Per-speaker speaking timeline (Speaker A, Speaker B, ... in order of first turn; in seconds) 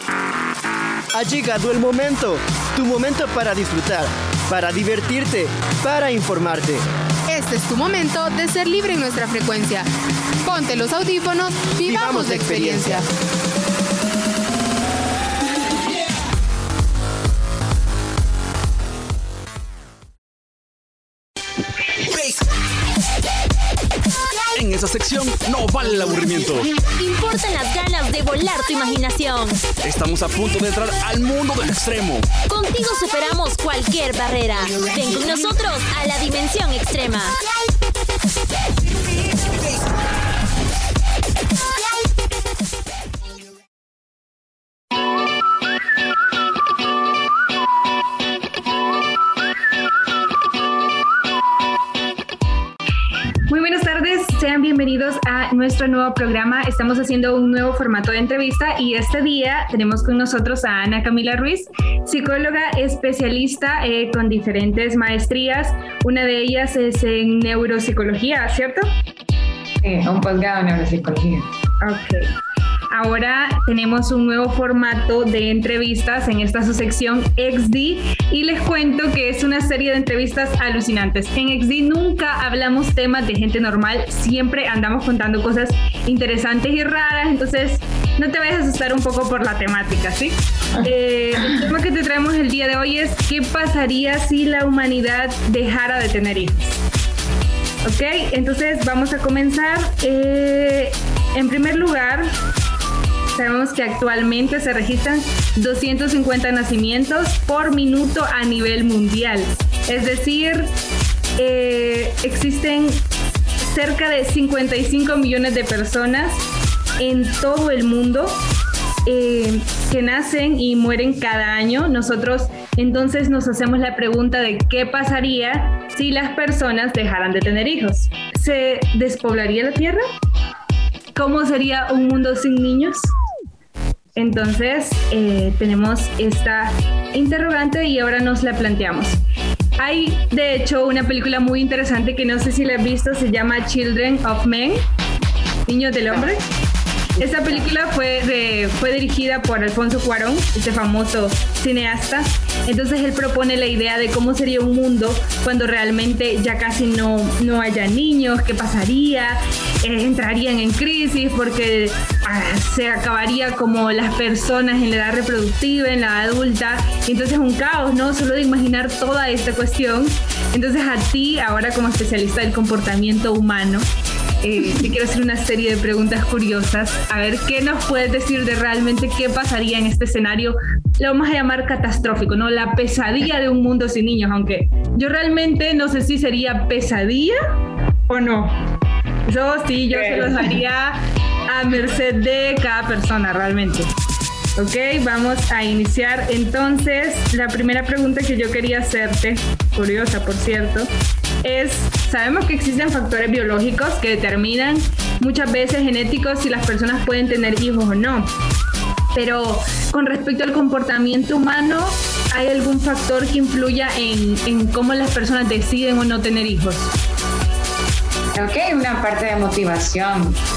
Speaker A: 1.1-6.8, 11.8-13.0
Speaker B: 7.3-9.9, 10.4-13.1
Speaker C: 22.1-22.4, 24.5-26.7, 29.8-32.3
Speaker D: 26.9-29.6, 32.5-37.4
Speaker E: 53.5-68.9, 71.8-72.3, 72.9-96.8, 97.8-102.3, 103.3-110.7, 111.4-113.0, 113.6-116.4, 117.0-118.4, 119.0-130.0, 131.1-133.1, 134.2-139.2, 139.8-144.8, 145.7-146.4, 147.2-173.9, 174.4-187.4, 188.1-188.6, 189.2-193.9, 194.6-200.9, 201.4-208.3, 209.1-216.9
Speaker F: 69.8-71.5, 147.2-147.7, 189.9-190.6, 218.3-220.4